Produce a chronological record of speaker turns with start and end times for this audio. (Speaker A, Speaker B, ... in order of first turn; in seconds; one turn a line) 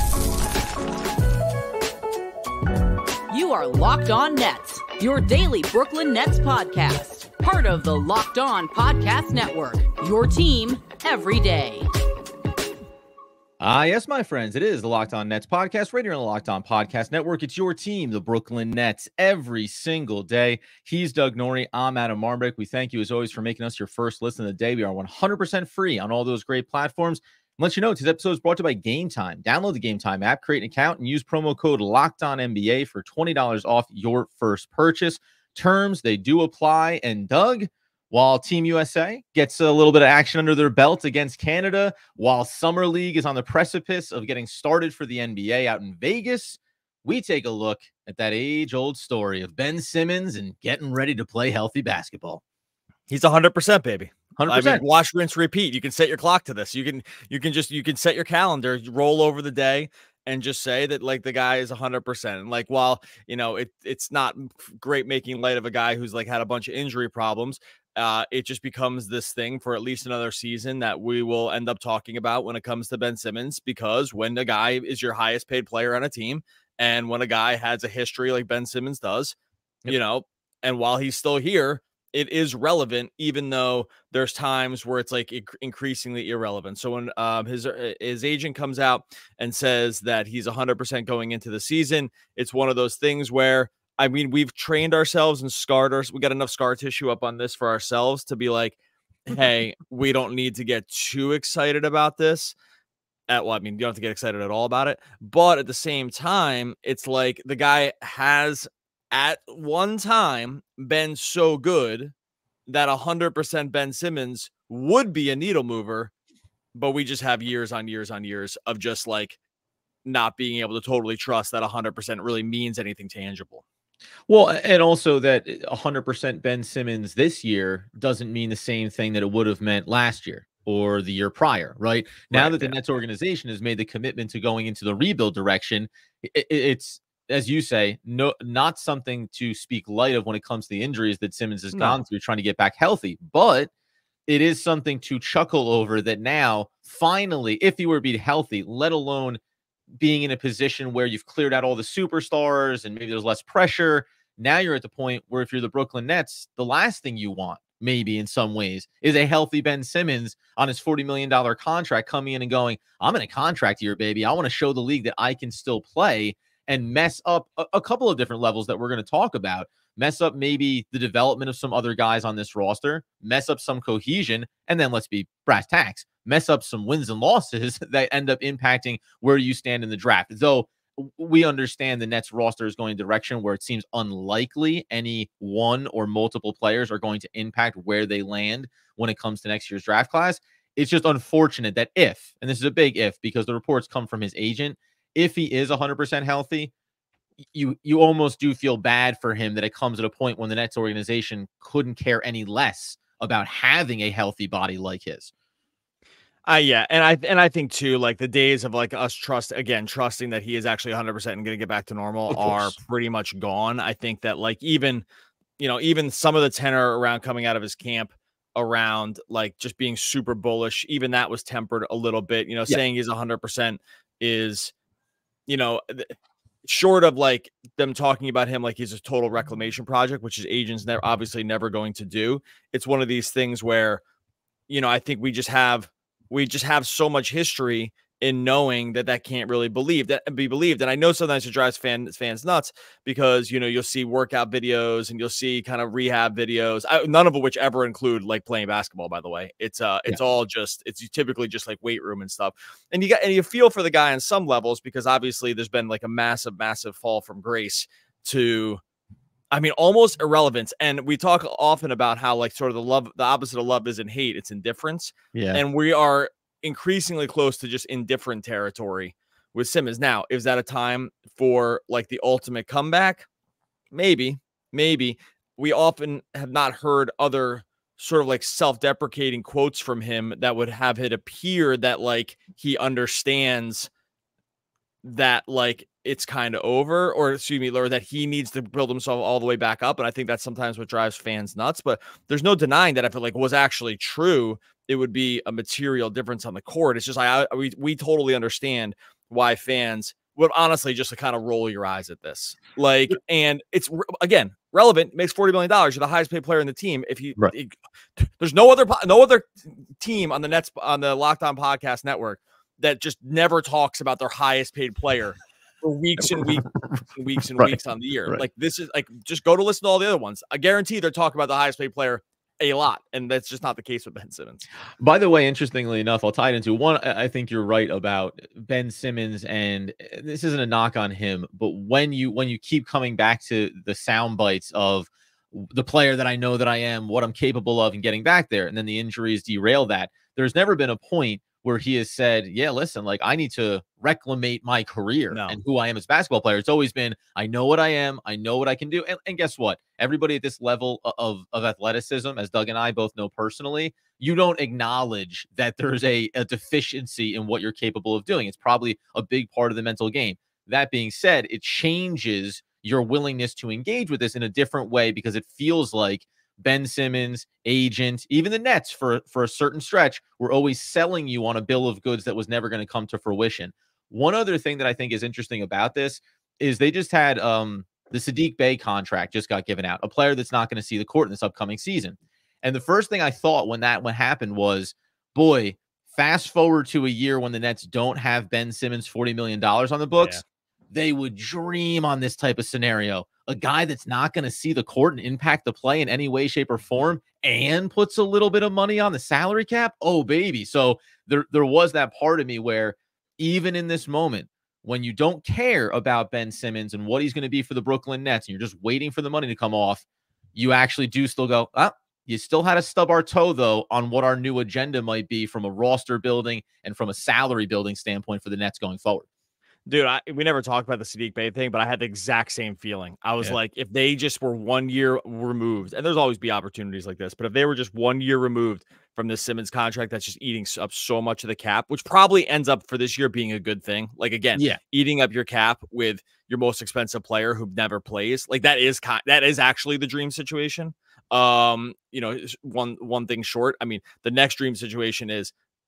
Speaker A: 3.3-11.9
Speaker B: 13.6-52.4
Speaker C: 53.1-79.3
Speaker B: 54.4-54.8
Speaker C: 79.9-102.5
Speaker C: 103.3-112.1
Speaker C: 112.7-116.1
Speaker C: 116.7-119.4
Speaker C: 120.0-123.6
Speaker B: 124.3-143.7
Speaker C: 132.3-132.8
Speaker C: 141.7-142.0
Speaker B: 144.3-149.4
Speaker B: 150.0-196.7
Speaker B: 197.5-205.3
Speaker C: 206.4-215.0
Speaker B: 212.3-212.8
Speaker C: 215.6-224.7
Speaker C: 225.5-226.1
Speaker C: 226.6-234.0
Speaker C: 234.7-258.8
Speaker C: 259.5-273.2
Speaker B: 265.3-265.6
Speaker C: 273.9-283.9
Speaker C: 285.0-324.6
Speaker B: 316.4-316.9
Speaker B: 317.6-318.4
Speaker B: 325.0-390.4
Speaker C: 345.3-345.6
Speaker B: 390.9-410.0
Speaker B: 410.6-419.3
Speaker C: 419.9-445.5